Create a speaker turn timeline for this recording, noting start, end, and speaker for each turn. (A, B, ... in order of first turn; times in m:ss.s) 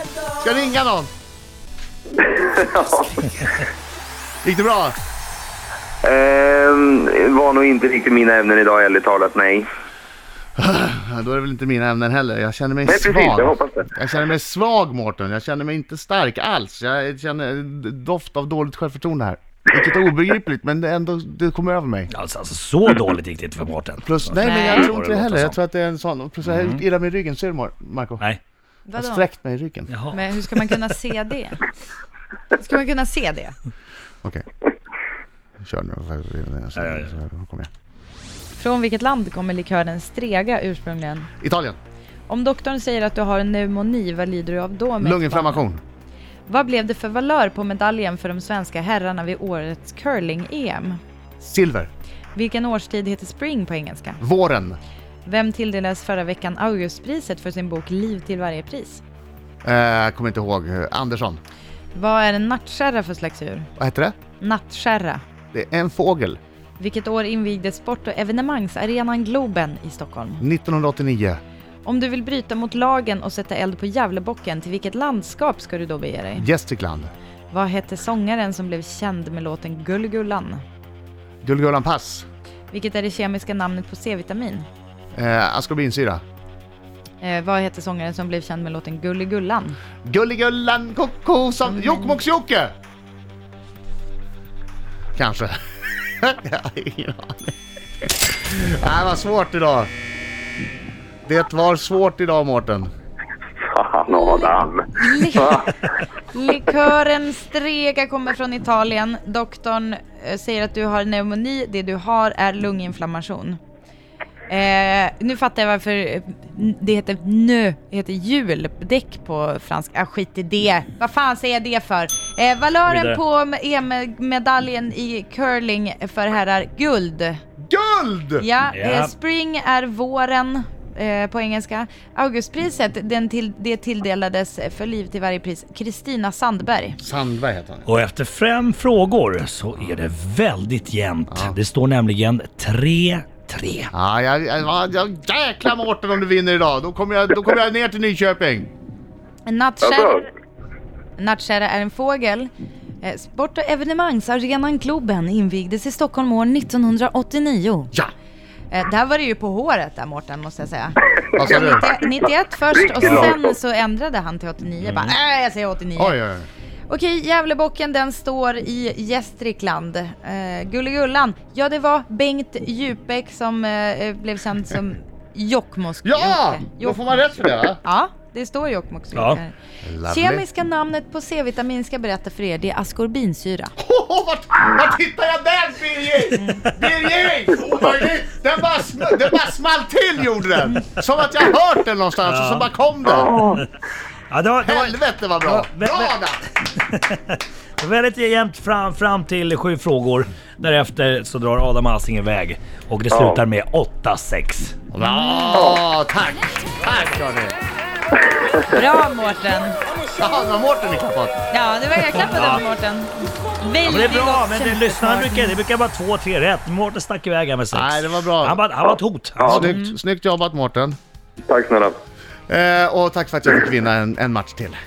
0:00.3-0:01.1 A
0:02.2-0:03.4 B
0:04.4-0:05.0 A
0:06.0-0:09.6 B
0:10.6-0:22.1 A
0:12.8-0:13.9 B
0:22.1-0:25.6 C
0:24.0-0:28.2 A
0:24.4-0:24.9 D
0:26.4-0:26.8 C
0:28.9-0:29.3 D
0:28.9-0:29.9 A
0:29.9-0:30.8 C
0:30.1-0:31.6 D
0:32.5-0:33.5 D
0:35.6-0:37.7 A
0:36.8-0:37.1 C
0:38.6-0:41.3 D
0:41.4-0:41.8 A
0:42.3-0:45.6 D
0:45.0-0:45.8 A
0:46.5-0:51.0 D
0:51.4-0:51.9 A
0:52.3-0:54.2 D
0:54.2-0:54.8 A
0:55.2-0:59.0 D
0:59.6-1:01.4 A
1:01.9-1:03.7 D
1:03.8-1:04.1 A
1:04.4-1:05.2 D
1:05.5-1:06.4 A
1:06.8-1:10.4 D
1:10.4-1:11.4 A
1:11.8-1:16.4 D
1:16.4-1:17.1 A
1:17.5-1:20.6 D
1:21.4-1:22.2 A
1:22.7-1:24.7 D
1:25.1-1:26.2 A
1:27.2-1:29.8 D
1:30.0-1:32.7 A
1:31.7-1:32.2 D
1:35.2-1:35.5 A
1:36.2-1:37.5 A
1:38.4-1:39.9 A
1:41.2-1:42.9 A
1:43.7-1:45.8 B
1:44.1-1:45.7 D
1:46.3-1:53.6 D
1:54.5-2:07.4 D
2:02.8-2:03.2 C
2:07.6-2:08.4 A
2:08.4-2:17.0 D
2:08.7-2:09.1 C
2:17.0-2:17.8 A
2:17.8-2:23.9 C
2:21.3-2:21.6 A
2:23.9-2:28.7 A
2:29.4-2:30.3 D
2:29.8-2:30.2 B
2:31.2-2:32.5 D
2:33.0-2:37.9 D
2:38.7-2:46.2 D
2:41.4-2:41.9 A
2:42.9-2:43.3 C
2:43.0-2:43.3 A
2:44.8-2:45.1 C
2:46.0-2:46.5 A
2:46.9-3:03.7 D
2:56.0-2:57.8 A
2:59.1-2:59.4 C
2:59.8-3:00.4 A
3:03.8-3:13.3 A
3:06.4-3:06.6 D
3:12.2-3:12.7 C
3:13.0-3:13.6 B
3:14.3-3:24.8 C
3:14.6-3:16.4 A
3:23.1-3:23.4 B
3:24.9-3:27.6 A
3:25.0-3:25.7 D
3:28.7-3:29.8 D
3:30.2-3:31.4 A
3:31.5-3:35.6 D
3:32.1-3:32.6 C
3:33.8-3:39.8 C
3:37.7-3:38.6 A
3:39.4-3:39.7 B
3:39.4-3:41.0 A
3:39.6-3:40.0 D
3:41.5-3:41.9 B
3:42.5-3:44.8 A